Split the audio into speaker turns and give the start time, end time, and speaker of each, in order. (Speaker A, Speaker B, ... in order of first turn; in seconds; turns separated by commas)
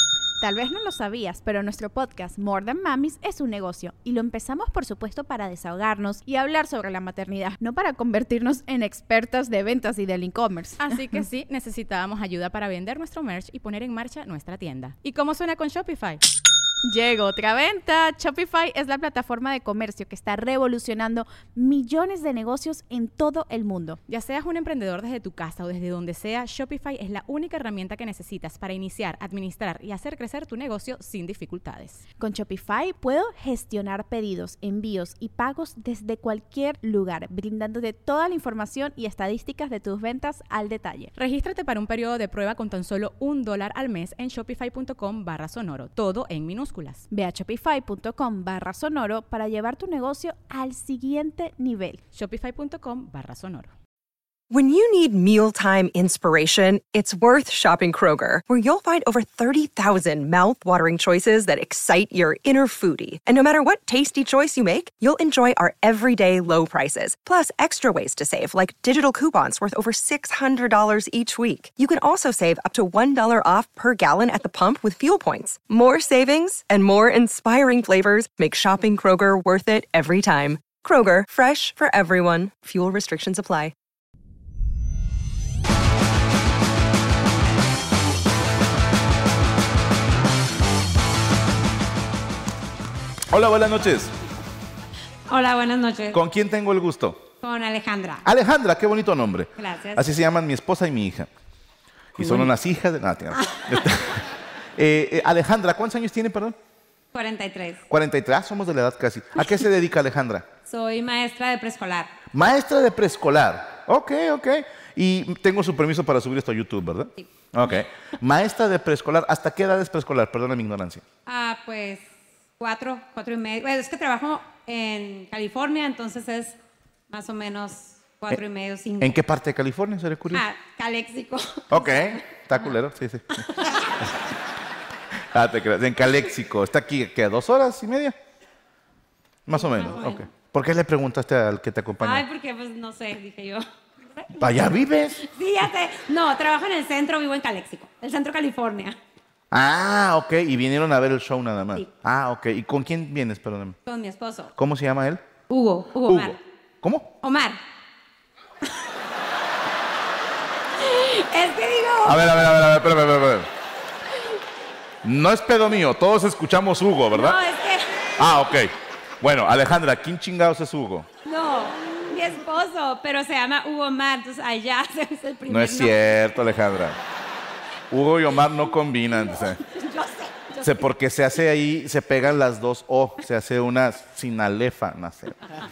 Speaker A: 0.4-10.9, Speaker B: 10.8-16.2, Speaker A: 16.9-24.0, Speaker B: 24.1-32.0, Speaker A: 32.2-41.1, Speaker B: 41.1-47.0, Speaker A: 47.1-52.0, Speaker B: 52.1-53.7, Speaker C: 54.5-83.7, Speaker D: 93.3-94.1, Speaker E: 95.3-96.2, Speaker D: 96.1-97.2, Speaker E: 97.4-98.2, Speaker D: 98.2-101.3, Speaker E: 99.6-100.1, Speaker D: 102.2-104.2, Speaker E: 102.2-102.5, Speaker D: 104.8-106.5, Speaker E: 107.1-107.8, Speaker D: 107.9-110.5, Speaker E: 110.7-112.1, Speaker D: 112.3-121.0, Speaker E: 121.2-122.0, Speaker E: 122.6-126.6, Speaker E: 127.1-129.2, Speaker D: 129.0-130.4, Speaker E: 130.3-132.7, Speaker D: 131.7-133.5, Speaker E: 133.6-133.8, Speaker D: 135.3-138.2, Speaker D: 139.5-142.2, Speaker E: 139.5-140.2, Speaker E: 142.0-149.0, Speaker D: 144.4-145.2, Speaker D: 149.5-153.8, Speaker E: 153.8-154.5, Speaker D: 154.6-155.2, Speaker E: 155.5-156.4, Speaker D: 156.1-157.1, Speaker E: 157.2-157.6, Speaker E: 160.8-162.2, Speaker D: 162.0-163.5, Speaker D: 165.0-167.4, Speaker E: 167.1-167.9, Speaker D: 168.2-171.1, Speaker E: 171.2-176.1, Speaker D: 175.5-177.0, Speaker D: 177.9-179.6, Speaker E: 179.3-180.7, Speaker D: 180.6-185.4